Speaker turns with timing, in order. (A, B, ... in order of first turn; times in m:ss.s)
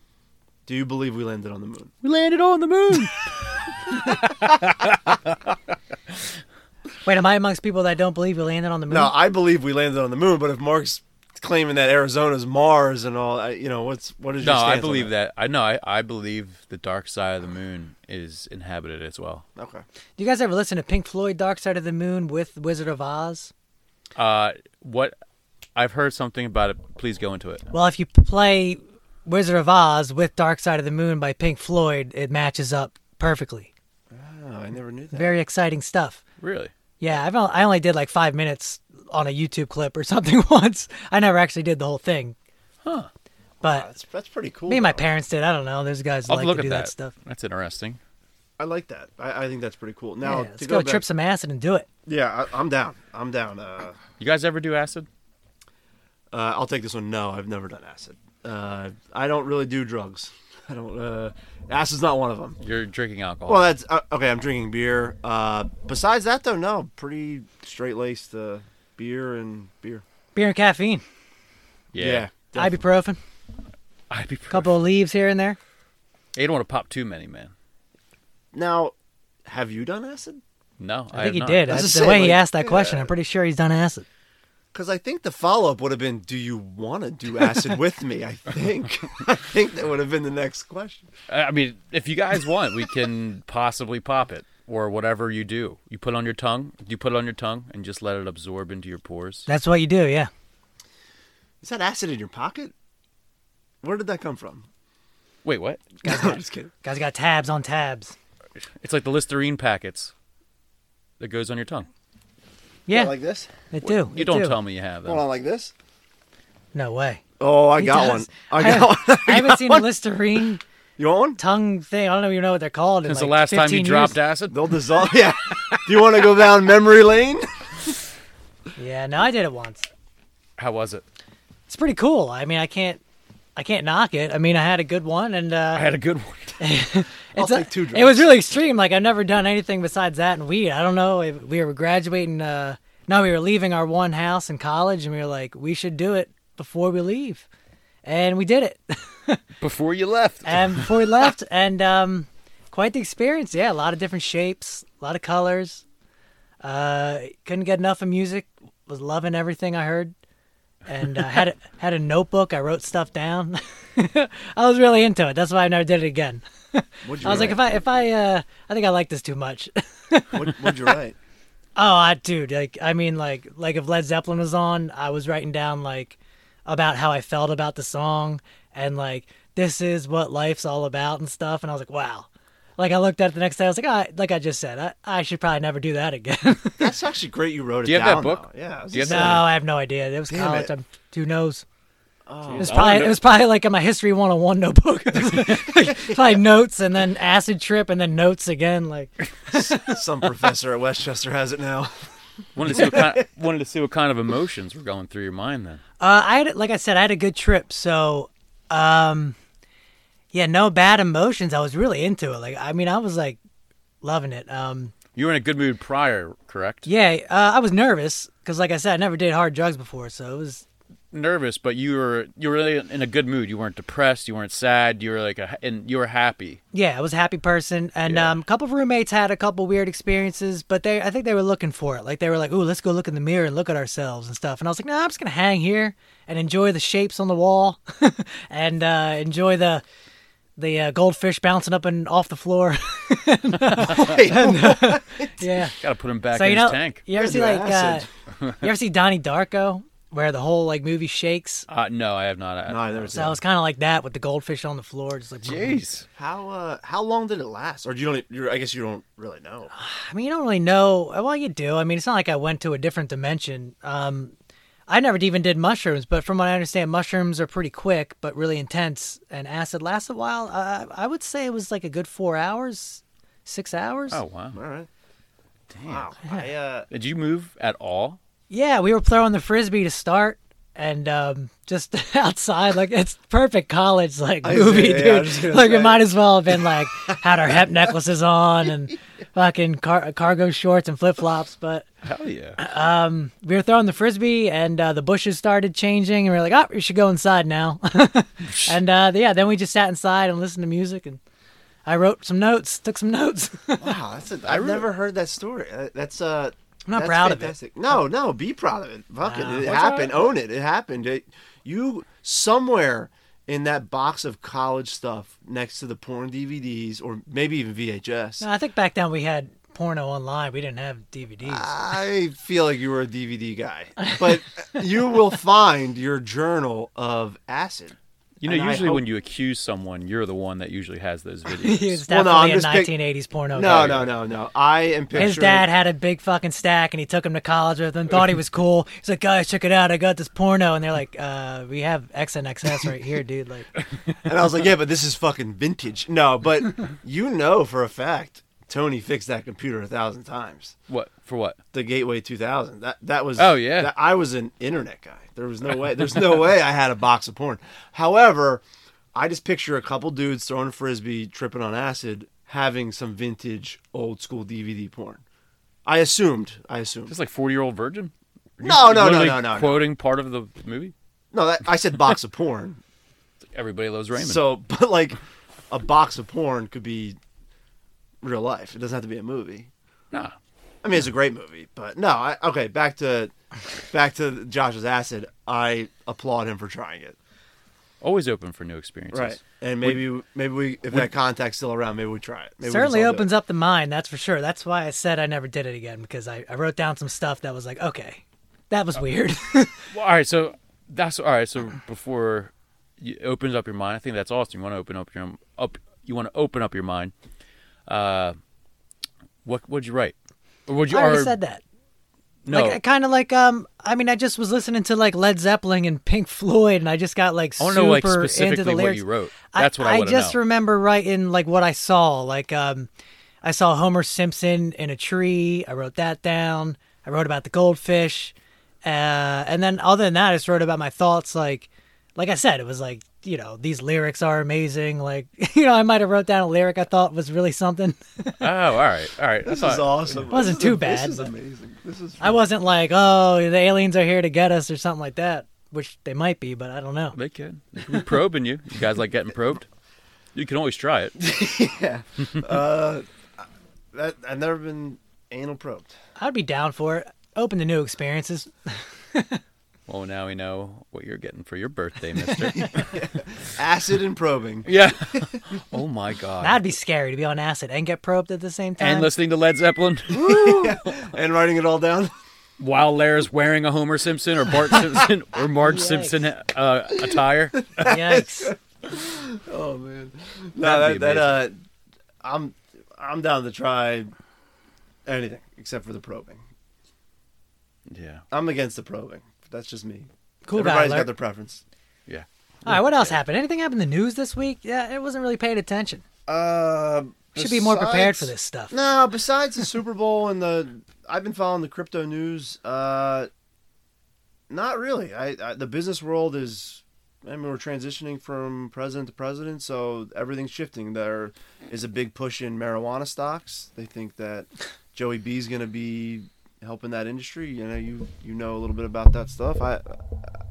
0:00.7-0:01.9 A
0:02.0-0:05.4 B
0:07.0-0:09.1 C
0:08.9-0:15.1 A
0:14.4-0:19.4 B
0:19.6-0:19.8 A
0:20.2-0:23.5 C
0:24.2-0:25.1 B
0:25.8-0:27.6 B
0:27.7-0:33.7 C
0:34.1-0:35.4 A
0:35.1-0:36.2 C
0:36.4-0:36.7 B
0:37.0-0:42.4 C
0:42.8-0:43.1 B
0:43.6-0:43.9 C
0:43.6-0:45.0 A
0:44.7-0:47.1 C
0:46.3-0:48.0 B
0:48.6-0:51.0 A
0:50.2-0:51.9 C
0:52.1-0:54.0 A
0:54.2-0:55.1 B
0:56.3-1:02.6 A
1:02.6-1:03.6 B
1:03.5-1:10.0 A
1:10.4-1:11.0 C
1:11.9-1:12.3 B
1:12.0-1:12.8 A
1:12.6-1:13.2 C
1:14.1-1:14.7 B
1:14.5-1:15.6 C
1:16.4-1:17.5 B
1:18.5-1:18.9 A
1:19.5-1:20.4 A
1:20.8-1:21.8 B
1:21.1-1:24.1 C
1:21.7-1:23.1 A
1:24.7-1:31.1 A
1:31.3-1:39.5 B
1:39.5-1:40.3 C
1:41.6-1:42.7 A
1:43.8-1:44.7 A
1:45.4-1:45.9 B
1:46.0-1:46.7 A
1:46.0-1:48.2 C
1:48.8-1:50.1 B
1:51.2-1:51.9 B
1:52.9-1:53.1 C
1:52.9-1:53.5 A
1:53.7-1:54.6 C
1:53.8-1:55.2 B
1:55.0-1:55.7 A
1:56.7-1:57.2 C
1:57.4-1:59.9 A
1:57.8-2:00.6 C
2:01.0-2:01.4 A
2:01.4-2:04.2 C
2:03.1-2:04.6 B
2:04.5-2:07.9 A
2:08.8-2:09.9 C
2:10.6-2:11.0 B
2:11.7-2:13.0 C
2:13.6-2:15.9 C
2:15.8-2:16.6 B
2:16.6-2:27.5 C
2:17.4-2:18.3 A
2:28.0-2:29.4 C
2:29.6-2:31.0 B
2:30.4-2:35.8 C
2:36.6-2:40.1 C
2:40.9-2:50.9 C
2:47.0-2:47.7 A
2:50.3-2:51.2 A
2:51.8-3:06.9 C
3:06.8-3:09.4 A
3:07.8-3:09.4 B
3:09.0-3:11.6 C
3:10.3-3:10.7 A
3:12.3-3:13.0 A
3:12.5-3:13.2 B
3:12.6-3:20.0 C
3:15.9-3:16.2 A
3:19.5-3:21.9 A
3:22.6-3:25.8 B
3:22.6-3:23.2 A
3:26.0-3:29.4 C
3:30.3-3:33.4 C
3:34.0-3:34.9 C
3:35.2-3:36.9 B
3:36.9-3:40.6 C
3:41.1-3:46.6 B
3:46.7-3:59.8 C
3:48.1-3:48.3 B
4:00.6-4:05.8 C
4:03.8-4:04.0 B
4:03.8-4:05.3 A
4:05.7-4:07.0 B
4:06.3-4:08.1 C
4:07.2-4:08.1 A
4:08.6-4:11.7 C
4:11.7-4:13.2 B
4:12.7-4:13.4 A
4:13.1-4:15.8 C
4:15.4-4:16.1 B
4:16.2-4:19.7 A
4:19.7-4:24.3 C
4:24.9-4:34.2 C
4:34.1-4:34.6 B
4:34.5-4:34.9 A
4:35.7-4:36.1 B
4:35.9-4:36.9 A
4:36.9-4:38.2 B
4:38.5-4:51.9 C
4:44.4-4:46.0 A
4:52.0-4:52.6 B
4:52.6-5:01.2 C
5:01.9-5:04.0 C
5:03.8-5:18.5 A
5:04.5-5:04.8 B
5:06.9-5:07.6 C
5:09.2-5:09.7 C
5:09.6-5:10.2 B
5:18.4-5:21.7 C
5:21.4-5:29.0 A
5:24.0-5:24.3 C
5:28.4-5:32.0 B
5:31.6-5:34.1 C
5:32.1-5:32.9 A
5:33.5-5:35.7 A
5:33.7-5:34.0 B
5:35.2-5:43.7 C
5:44.2-5:50.8 A
5:50.9-5:51.6 B
5:51.7-5:58.6 A
5:53.4-5:53.9 B
5:59.1-6:05.2 A
6:05.8-6:07.1 A
6:07.1-6:10.9 B
6:08.6-6:09.9 A
6:11.3-6:12.8 A
6:13.5-6:14.4 B
6:14.2-6:15.2 A
6:15.7-6:17.2 A
6:18.2-6:19.7 A
6:20.8-6:27.2 A
6:28.0-6:30.0 B
6:29.1-6:33.3 A
6:32.6-6:39.9 C
6:39.9-6:47.1 B
6:47.9-6:48.4 B
6:49.4-6:50.2 B
6:50.7-6:51.3 B
6:50.9-6:51.6 C
6:52.5-6:52.8 B
6:52.5-7:02.9 C
6:57.6-7:00.4 B
7:03.4-7:18.4 C
7:18.4-7:20.3 B
7:19.4-7:22.4 A
7:20.3-7:21.3 C
7:22.2-7:27.2 C
7:27.2-7:29.7 B
7:30.4-7:31.2 B
7:31.2-7:36.0 A
7:36.2-7:39.4 C
7:39.9-7:43.0 B
7:42.4-7:42.7 C
7:42.6-7:44.7 A
7:44.7-7:46.6 B
7:46.4-7:49.1 C
7:48.8-7:51.1 B
7:50.1-7:52.1 A
7:52.6-7:57.8 B
7:55.6-7:56.2 C
7:57.0-8:01.6 A
7:57.8-7:58.5 C
8:00.6-8:01.4 B
8:02.2-8:04.1 A
8:05.1-8:06.4 A
8:07.9-8:08.2 B
8:08.3-8:11.6 A
8:10.5-8:11.1 C
8:12.1-8:13.2 B
8:12.7-8:16.0 C
8:16.3-8:23.3 A
8:17.4-8:18.7 C
8:24.5-8:40.0 A